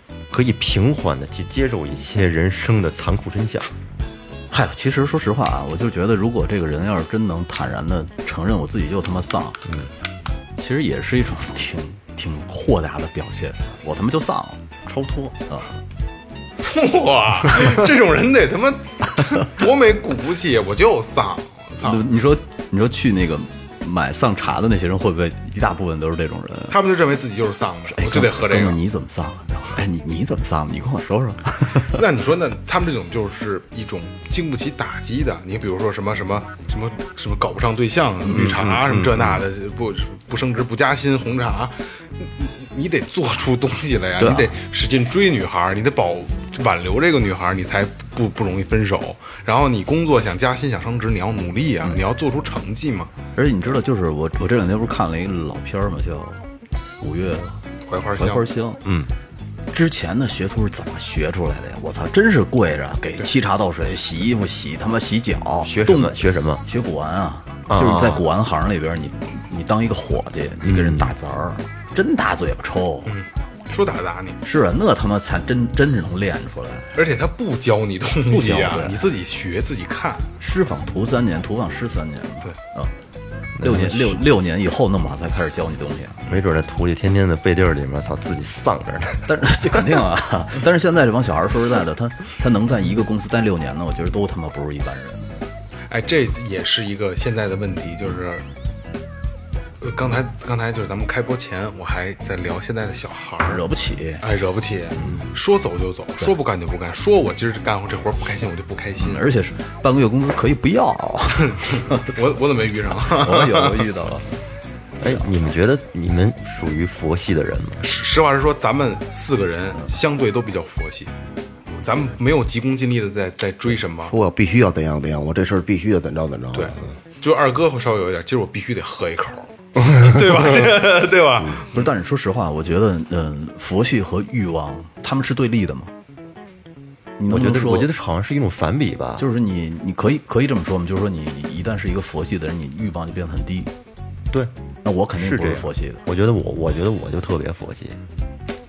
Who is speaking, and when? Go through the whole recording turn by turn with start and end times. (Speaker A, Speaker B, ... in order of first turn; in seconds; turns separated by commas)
Speaker A: 0.3-3.7, Speaker B: 4.5-9.6, Speaker B: 10.6-14.7, Speaker A: 14.9-15.3, Speaker B: 15.5-15.7, Speaker C: 16.6-22.0, Speaker B: 21.8-26.8, Speaker C: 26.7-28.8, Speaker B: 27.9-32.0, Speaker C: 31.9-53.1, Speaker B: 38.3-38.8, Speaker A: 38.4-39.2, Speaker B: 44.2-44.5, Speaker B: 53.4-56.5, Speaker B: 57.0-57.6, Speaker C: 57.9-58.5, Speaker B: 58.2-58.8, Speaker A: 58.8-59.1, Speaker B: 59.7-73.1, Speaker A: 65.6-66.6, Speaker A: 67.7-68.2, Speaker A: 70.6-71.1, Speaker C: 73.1-74.4, Speaker B: 74.4-77.0, Speaker C: 77.0-80.3, Speaker B: 78.3-79.0, Speaker B: 80.4-82.9, Speaker A: 83.6-84.2, Speaker B: 83.6-86.2, Speaker A: 86.3-89.8, Speaker B: 89.3-95.3, Speaker C: 95.9-98.5, Speaker C: 99.8-103.6, Speaker B: 103.4-104.2, Speaker C: 104.2-109.3, Speaker B: 109.0-112.4, Speaker C: 111.5-113.9, Speaker B: 113.0-114.3, Speaker A: 115.0-117.9, Speaker C: 117.8-121.1, Speaker C: 121.7-124.2, Speaker D: 124.1-126.8, Speaker C: 126.5-131.7, Speaker B: 131.7-135.9, Speaker B: 137.2-137.9, Speaker A: 137.3-139.3, Speaker B: 139.2-143.7, Speaker B: 144.8-146.0, Speaker A: 145.1-148.0